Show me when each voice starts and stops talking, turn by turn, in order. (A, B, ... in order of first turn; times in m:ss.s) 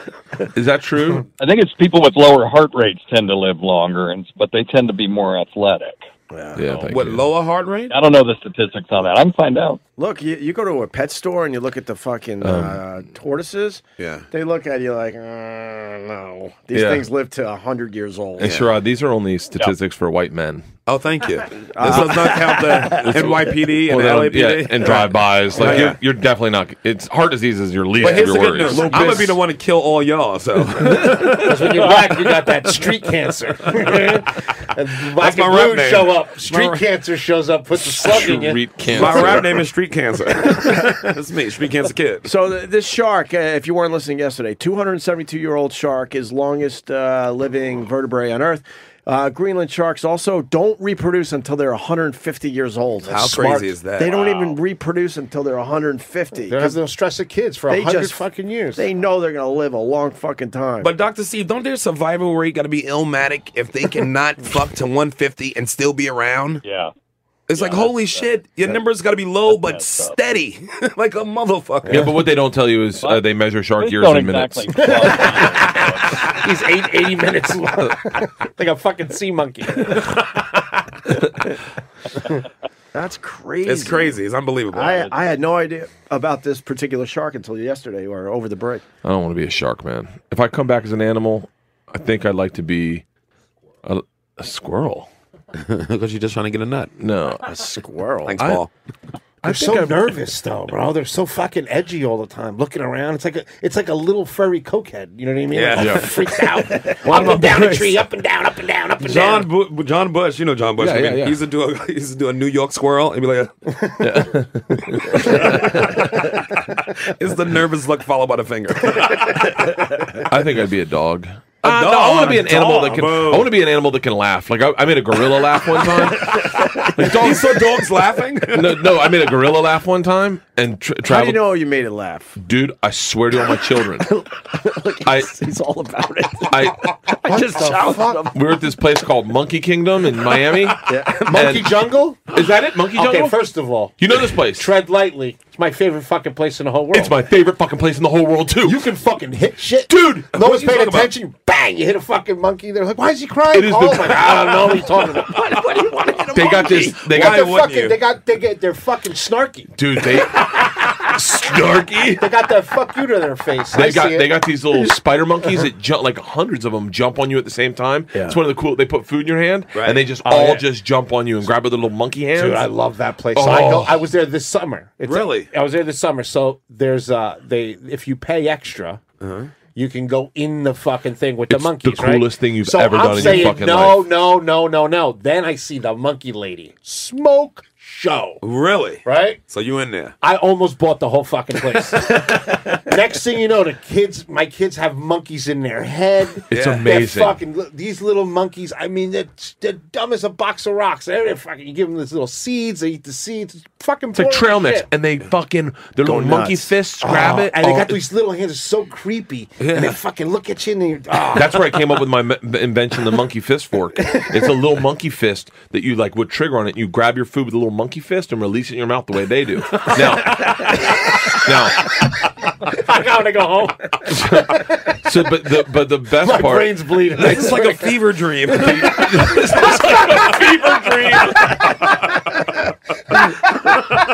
0:00.5-0:01.3 A
0:01.4-0:06.0 B
0:06.3-0:06.6 C
0:06.6-0:07.3 A
0:06.6-0:06.9 B
0:06.9-0:07.9 D
0:07.9-0:09.8 B
0:10.0-0:18.6 C
0:12.4-0:12.8 A
0:14.0-0:14.2 D
0:16.7-0:17.0 A
0:18.4-0:20.6 A
0:18.4-0:18.7 D
0:20.8-0:26.0 D
0:21.7-0:23.3 C
0:22.9-0:29.4 A
0:28.0-0:31.8 D
0:31.4-0:39.4 E
0:35.2-0:36.8 D
0:37.8-0:39.5 A
0:38.9-0:42.3 D
0:42.2-0:56.8 C
0:53.1-0:53.6 E
0:53.1-0:54.6 D
0:56.5-0:58.8 E
0:57.7-1:00.9 C
1:00.8-1:06.6 D
1:06.6-1:06.9 B
1:07.5-1:12.0 D
1:07.5-1:08.3 B
1:09.5-1:10.1 B
1:11.9-1:15.1 A
1:13.0-1:13.3 B
1:13.8-1:16.3 B
1:14.8-1:20.2 E
1:22.9-1:24.2 C
1:23.6-1:25.1 D
1:24.7-1:28.8 C
1:29.0-1:33.0 A
1:33.8-1:35.1 A
1:35.5-1:36.9 D
1:37.0-1:37.5 A
1:37.4-1:38.4 C
1:38.2-1:38.7 D
1:38.4-1:38.6 A
1:39.4-1:39.9 A
1:39.4-1:49.5 E
1:45.5-1:46.2 D
1:45.8-1:46.1 A
1:47.0-1:47.5 C
1:49.0-1:53.7 D
1:50.8-1:51.4 A
1:54.0-1:56.2 A
1:55.2-1:55.4 D
1:57.2-2:00.1 D
2:00.3-2:07.7 A
2:01.6-2:03.5 D
2:06.1-2:08.9 D
2:08.5-2:11.4 A
2:11.1-2:12.4 C
2:12.4-2:14.1 A
2:14.1-2:16.7 C
2:15.0-2:15.3 A
2:16.5-2:16.9 A
2:17.2-2:18.3 E
2:17.3-2:18.3 C
2:18.3-2:23.4 A
2:20.8-2:21.2 C
2:21.2-2:23.9 E
2:24.0-2:24.7 A
2:24.5-2:27.1 E
2:26.9-2:28.8 A
2:28.6-2:35.6 E
2:29.9-2:30.3 A
2:30.3-2:31.1 D
2:33.5-2:34.6 A
2:35.3-2:38.0 D
2:36.3-2:37.5 A
2:36.9-2:39.7 E
2:39.7-2:42.2 A
2:42.2-2:44.3 E
2:43.7-2:52.7 A
2:49.7-2:50.0 D
2:50.2-2:50.6 E
2:52.3-2:59.0 E
2:53.3-2:54.0 A
2:55.0-2:55.5 D
2:59.2-2:59.5 D
2:59.7-3:08.4 E
3:01.5-3:04.1 A
3:03.2-3:03.5 D
3:08.4-3:10.1 D
3:09.0-3:09.4 E
3:10.2-3:24.9 E
3:16.5-3:17.4 A
3:16.5-3:16.8 D
3:24.1-3:28.0 A
3:26.0-3:26.7 C
3:27.0-3:31.8 E
3:29.6-3:30.0 D
3:31.3-3:40.7 A
3:41.3-3:41.9 A
3:42.7-3:45.0 E
3:44.1-3:46.7 A
3:46.2-3:48.0 E
3:47.2-3:49.4 D
3:48.5-3:51.6 A
3:49.2-3:51.6 E